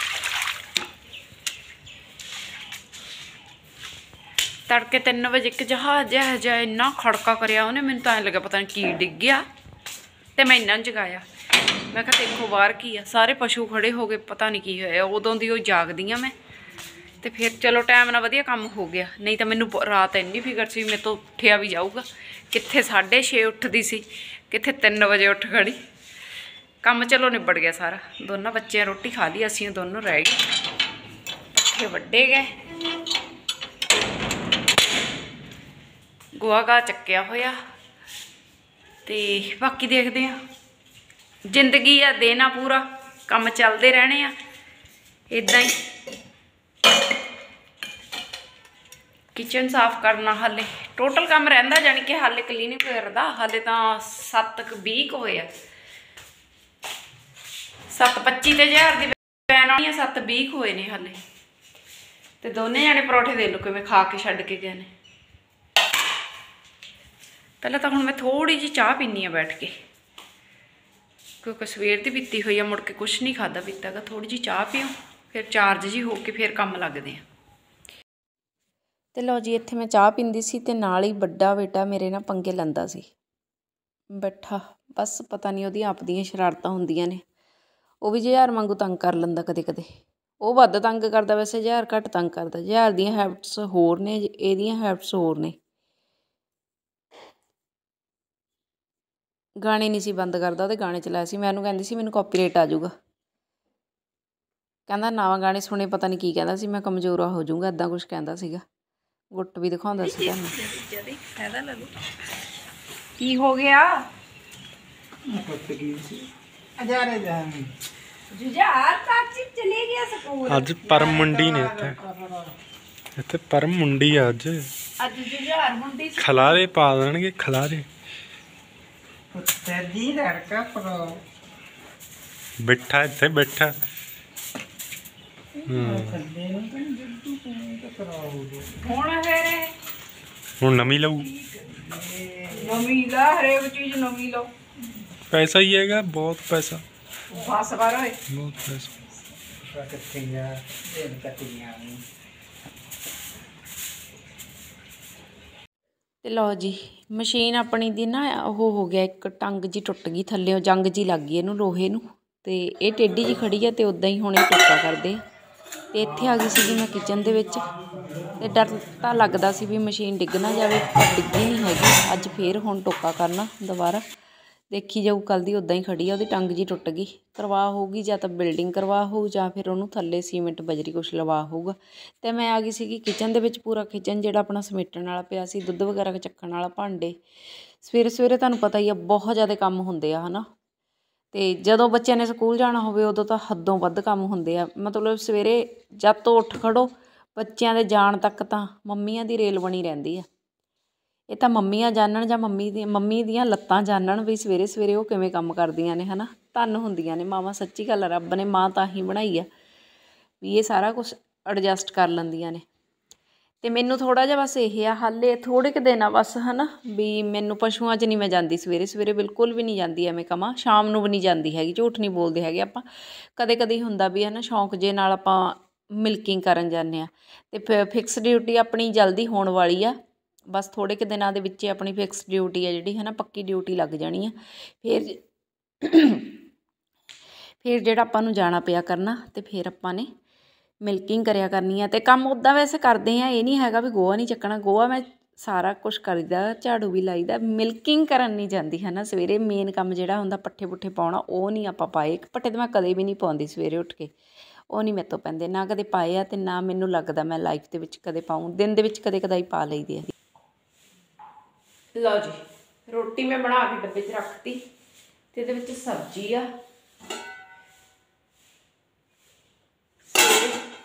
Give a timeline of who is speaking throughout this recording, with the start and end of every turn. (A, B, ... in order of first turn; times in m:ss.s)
0:04.7-0:09.4 A
0:10.4-0:11.2 A
0:11.9-0:16.4 A
0:17.2-0:25.8 A
0:26.8-0:30.4 A
0:31.7-0:32.5 A
0:36.4-0:37.6 A
0:39.0-0:40.4 A
0:41.5-0:44.3 A
0:45.3-0:45.8 A
0:49.3-0:55.5 A
0:57.9-1:01.2 A
1:02.4-1:04.9 A
1:07.6-1:09.7 A
1:11.4-1:17.2 A
1:19.1-1:23.1 A
1:24.2-1:27.2 A
1:28.0-1:29.9 A
1:30.4-1:35.6 A
1:39.6-1:42.9 A
1:44.9-1:48.6 A
1:49.3-1:51.8 A
1:53.2-1:54.0 A
1:55.3-1:56.3 B
1:56.8-1:57.7 B
1:58.3-2:00.6 A
2:00.4-2:02.0 C
2:00.7-2:02.5 B
2:03.2-2:04.7 C
2:05.0-2:06.6 A
2:06.2-2:07.9 C
2:09.3-2:11.2 B
2:12.6-2:13.7 C
2:15.6-2:18.7 B
2:15.7-2:16.2 C
2:18.8-2:19.7 A
2:20.6-2:21.3 C
2:21.4-2:22.9 B
2:22.6-2:24.5 A
2:25.3-2:26.8 C
2:27.4-2:28.2 A
2:28.3-2:28.9 C
2:29.6-2:32.0 B
2:36.2-2:45.2 A
2:45.9-2:47.7 A
2:48.4-2:54.0 A
2:54.7-3:07.2 A
3:07.8-3:10.4 A
3:11.3-3:20.3 A
3:21.3-3:29.5 A
3:30.4-3:32.6 A
3:33.6-3:42.8 A
3:43.4-3:50.0 A
3:50.5-3:55.2 A
3:55.8-3:56.4 A
3:57.6-4:00.1 A
4:00.8-4:14.1 A
4:14.7-4:20.1 A
4:21.9-4:24.6 A
4:25.3-4:26.5 A
4:30.1-4:30.6 A